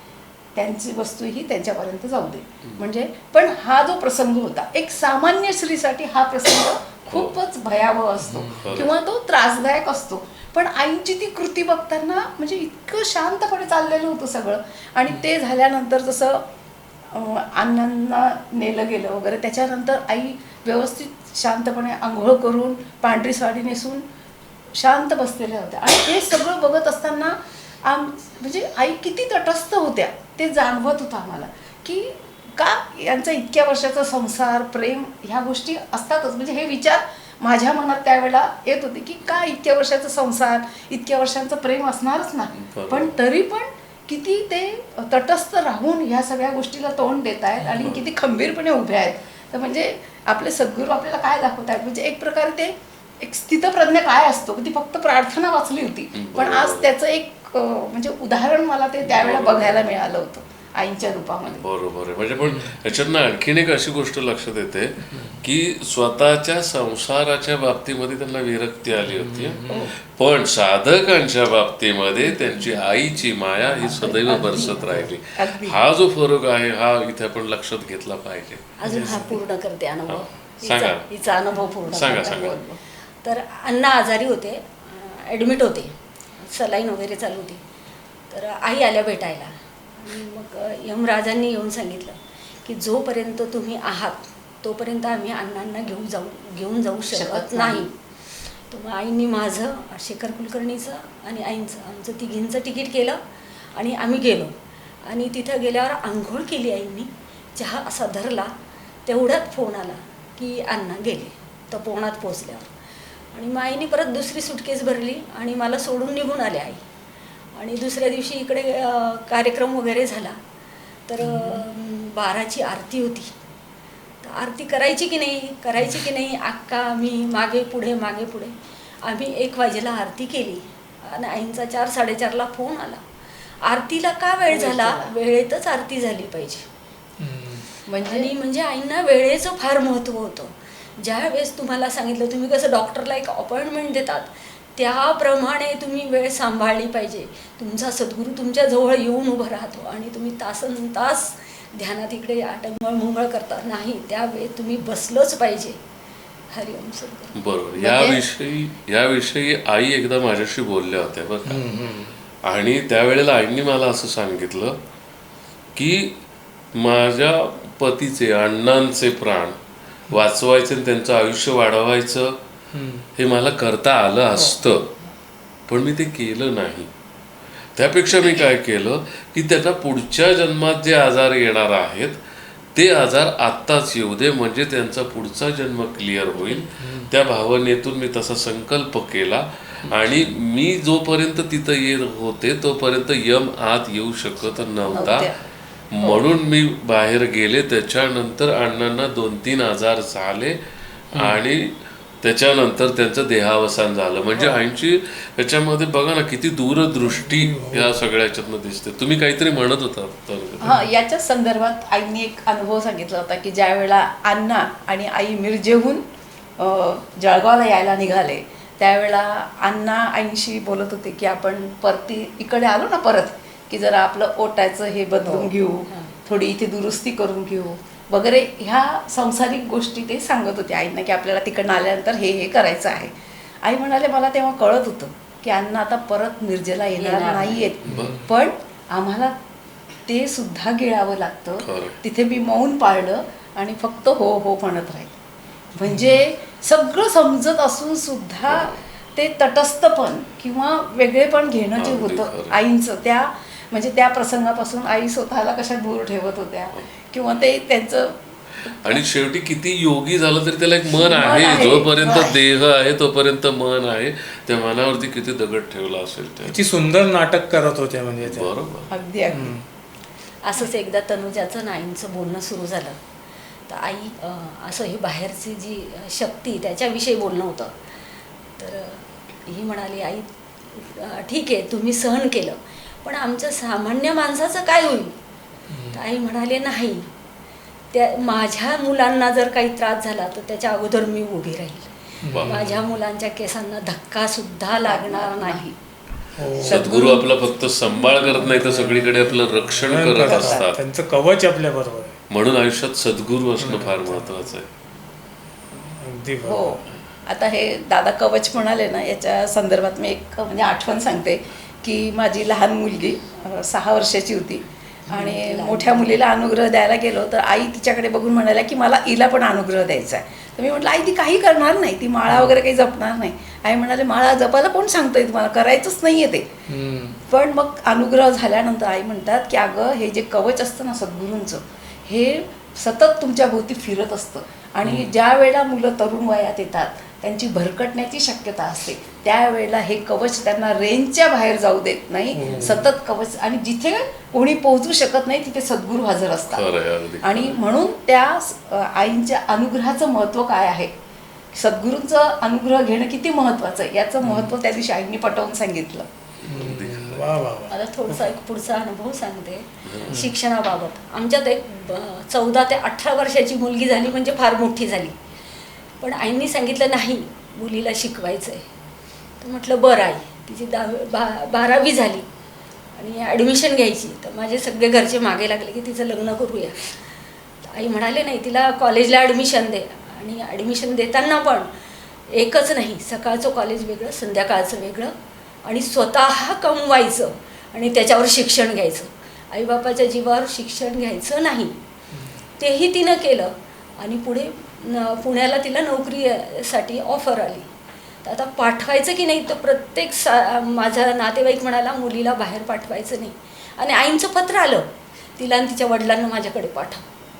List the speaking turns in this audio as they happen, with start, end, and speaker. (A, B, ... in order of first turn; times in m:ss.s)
0:00.5-0:16.4 A
0:07.1-0:07.4 B
0:08.2-0:08.8 C
0:08.6-0:08.9 B
0:17.1-0:24.0 A
0:24.8-1:01.6 A
0:42.5-0:43.1 B
0:47.7-0:48.1 B
0:56.1-0:56.9 B
0:59.0-0:59.9 B
1:01.6-1:18.8 B
1:02.4-1:02.8 C
1:05.1-1:05.4 C
1:09.0-1:09.9 C
1:09.7-1:09.9 A
1:12.3-1:12.8 A
1:13.8-1:15.8 A
1:18.8-1:22.4 D
1:18.8-1:19.4 C
1:20.1-1:21.1 B
1:21.9-1:22.8 A
1:21.9-1:22.6 B
1:23.2-1:27.6 D
1:28.3-1:37.9 D
1:37.1-1:37.8 A
1:38.7-1:43.2 D
1:43.7-1:44.5 D
1:45.0-1:48.5 D
1:49.0-1:52.7 D
1:53.3-1:56.8 D
1:57.5-2:00.4 D
2:01.1-2:03.3 D
2:01.2-2:01.6 C
2:04.2-2:13.0 D
2:13.6-2:16.6 D
2:14.5-2:15.1 A
2:17.2-2:17.7 C
2:17.9-2:18.3 A
2:18.0-2:35.8 D
2:36.5-2:37.3 D
2:37.3-2:41.6 B
2:37.8-2:38.2 A
2:41.4-2:42.2 C
2:42.4-2:44.8 B
2:45.7-2:46.2 B
2:46.7-2:49.6 B
2:50.1-2:52.4 B
2:52.7-2:53.0 C
2:53.2-2:54.9 B
2:55.7-2:56.9 B
2:57.8-3:02.2 B
3:02.7-3:15.3 B
3:06.8-3:07.1 C
3:14.9-3:15.2 D
3:14.9-3:15.4 A
3:15.9-3:20.6 B
3:21.1-3:30.8 B
3:21.1-3:21.4 C
3:27.1-3:28.0 C
3:30.6-3:36.0 A
3:36.6-3:53.1 A
3:45.2-3:46.1 D
3:53.6-3:59.3 A
3:56.9-3:57.7 D
3:57.8-3:58.1 B
3:57.8-3:58.3 C
4:00.1-4:05.1 A
4:01.6-4:02.0 B
4:05.7-4:19.0 A
4:05.8-4:06.2 C
4:08.5-4:08.8 B
4:11.8-4:12.6 B
4:18.7-4:26.6 B
4:21.0-4:22.4 A
4:26.4-4:28.5 C
4:28.2-4:28.9 B
4:28.9-4:29.6 A
4:29.3-4:29.6 C
4:30.4-4:33.0 D
4:33.7-4:37.7 D
4:38.6-4:45.2 D
4:45.7-4:46.0 C
4:45.9-4:47.1 D
4:47.9-4:55.6 D
4:52.2-4:52.9 C
4:52.3-4:52.7 B
4:54.7-4:55.8 A
4:56.4-4:56.9 C
4:56.6-5:00.8 B
4:56.6-4:57.3 A
4:58.3-5:02.2 C
5:00.2-5:00.6 A
5:02.3-5:04.7 B
5:03.6-5:04.3 C
5:05.7-5:06.8 C
5:06.4-5:26.5 A
5:15.1-5:16.2 D
5:22.3-5:22.6 C
5:26.7-5:27.2 C
5:27.3-5:50.9 A
5:34.8-5:35.1 C
5:42.3-5:42.9 C
5:46.5-5:47.6 B
5:51.5-5:56.1 A
5:54.2-5:54.5 C
5:56.4-5:57.3 B
5:56.5-5:58.3 C
5:57.7-6:05.2 D
5:59.8-6:00.2 B
6:06.0-6:08.7 D
6:09.4-6:12.2 D
6:12.9-6:16.9 D
6:17.6-6:21.7 D
6:22.3-6:31.8 D
6:32.1-6:32.4 C
6:32.6-6:37.7 D
6:38.2-6:47.0 D